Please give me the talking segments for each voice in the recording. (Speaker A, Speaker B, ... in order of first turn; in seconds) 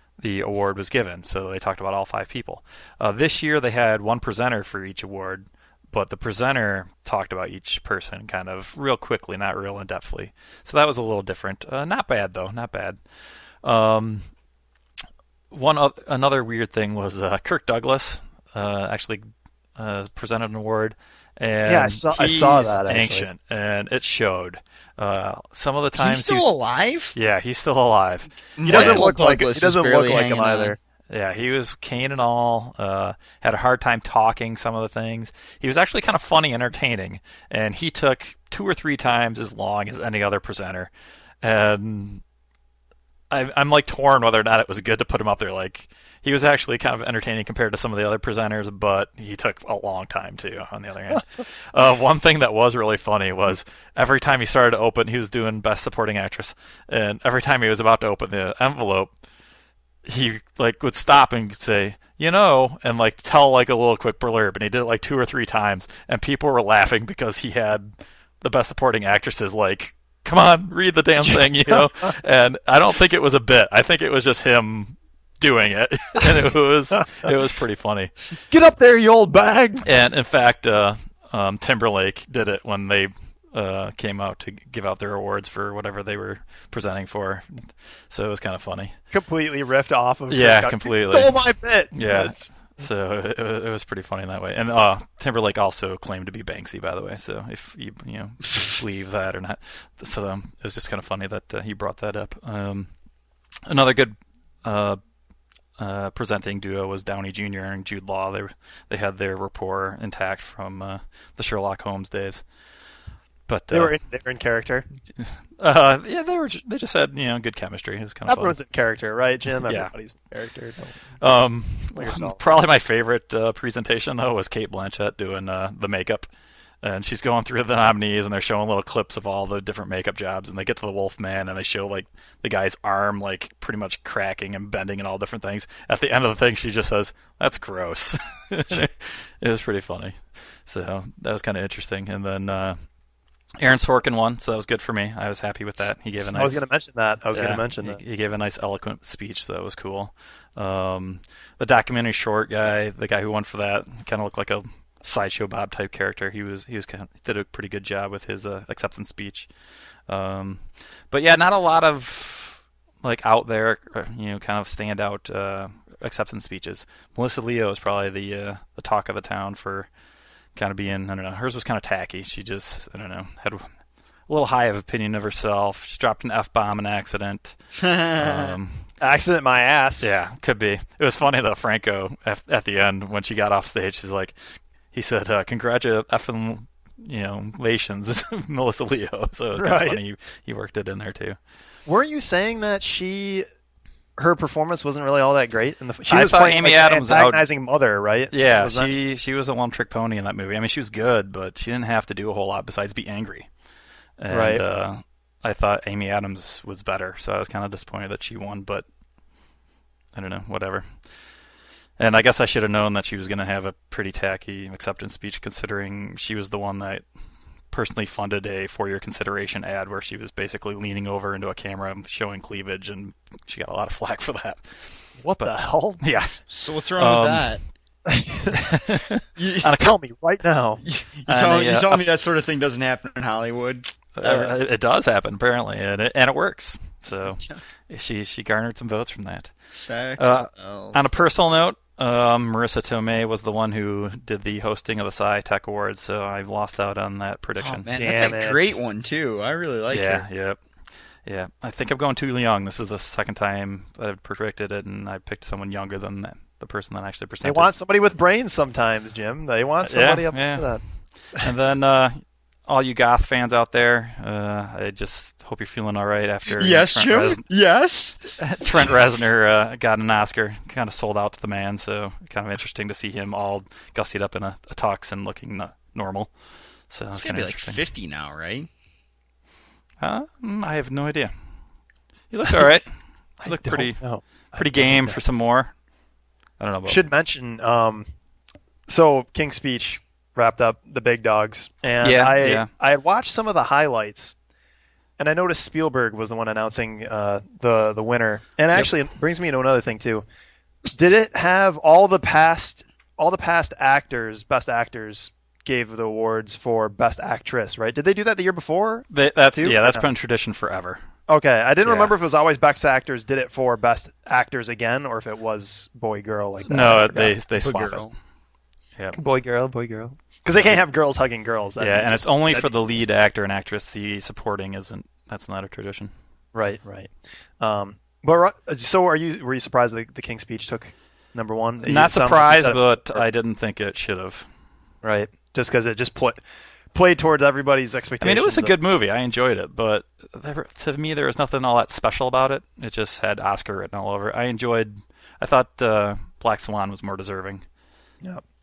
Speaker A: 0.2-13.0, 13.6-14.3, 15.5-19.2, 19.8-26.4, 27.1-29.1, 31.1-40.9, 41.4-42.2, 43.3-59.1, 60.0-78.3, 79.8-89.0, 90.3-91.4, 91.9-102.9, 103.7-105.0, 105.8-112.4, 113.5-114.0, 115.2-118.6, 119.6-119.9, 121.2-126.3, 126.8-142.8, 143.6-146.6, 147.3-159.5, 160.1-169.9, 170.6-173.7, 174.3-177.6, 178.2-178.8, 180.0-184.4, 184.9-191.4, 196.1-197.4, 198.3-203.5, 204.2-208.9, 210.2-210.9, 212.0-217.0, 217.7-224.6, 225.4-226.4, 227.0-227.5, 228.5-229.2, 234.2-239.5, 240.2-247.9, 249.9-250.6, 251.2-257.7, 259.8-260.7, 261.4-267.4, 268.4-276.3, 276.9-277.8, 280.0-281.3, 282.3-282.9, 283.5-284.0, 284.6-285.7, 286.6-287.0, 292.0-292.7, 309.1-311.0, 311.8-312.1, 316.7-318.1, 321.8-326.1, 331.8-334.5, 338.2-347.6
Speaker B: 21.7-23.3, 28.7-30.8, 71.2-72.1, 78.5-80.0, 89.1-92.4, 113.7-114.9, 118.3-121.0, 122.0-122.4, 146.4-148.0, 179.0-180.1, 189.6-190.0, 191.9-193.4, 194.2-198.9, 204.3-204.6, 225.2-226.1, 228.1-228.8, 229.6-232.0, 247.9-248.8, 257.4-260.8, 283.4-285.2, 286.9-288.1, 288.9-294.3, 295.2-300.2, 300.9-310.1, 311.3-317.4, 319.1-323.0, 326.5-333.3, 335.0-336.4, 336.9-338.7
Speaker C: 25.9-27.1, 28.6-30.8, 177.8-178.6, 226.5-227.6, 229.4-229.9, 230.8-234.5, 237.3-237.6, 239.7-241.0, 247.6-250.3, 266.6-268.9, 277.1-278.7, 317.6-318.1